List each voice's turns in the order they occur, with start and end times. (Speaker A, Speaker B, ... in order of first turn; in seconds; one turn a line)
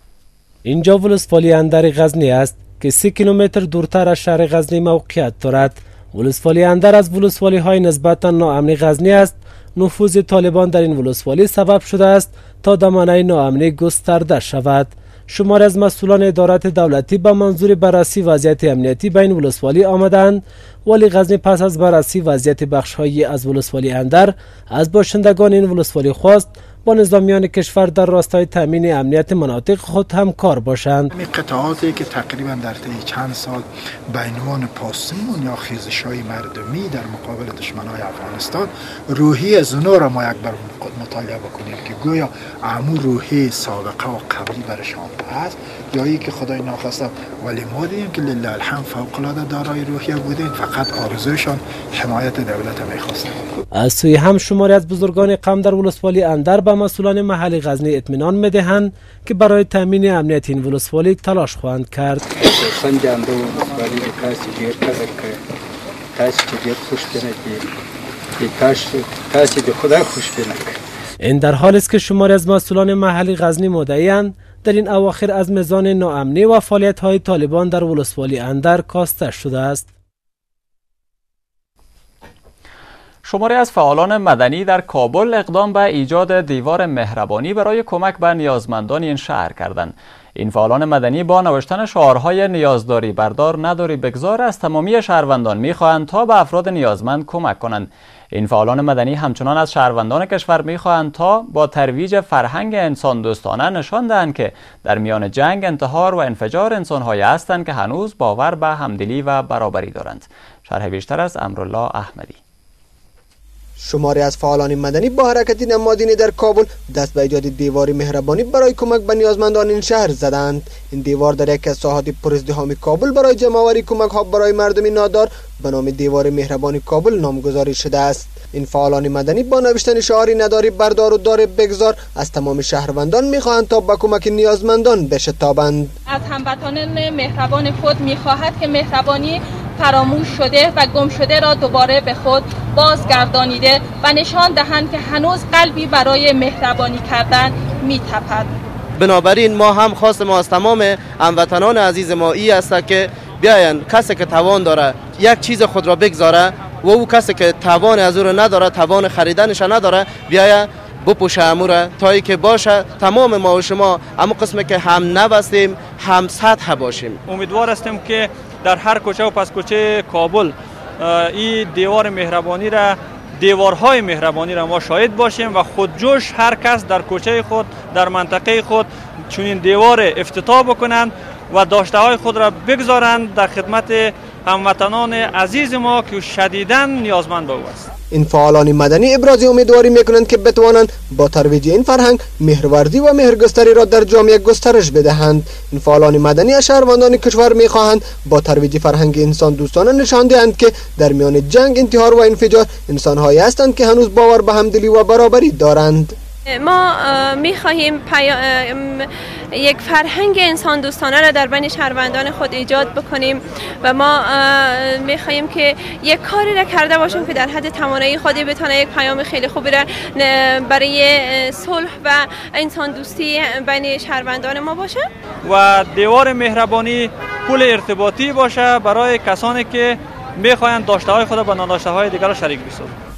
Speaker A: 0.7-31.1
Speaker B: 31.1-53.4
Speaker A: 53.8-62.3
Speaker C: 62.4-65.4
Speaker C: 66.2-67.7
Speaker C: 68.4-70.8
Speaker A: 71.2-79.9
Speaker D: 83.2-112.4
Speaker E: 113.8-135.9
Speaker F: 136.1-148.5
Speaker G: 149.0-167.2
Speaker H: 167.3-187.9
Speaker E: 188.1-206.2
Speaker I: 206.5-225.1
Speaker H: 225.4-233.0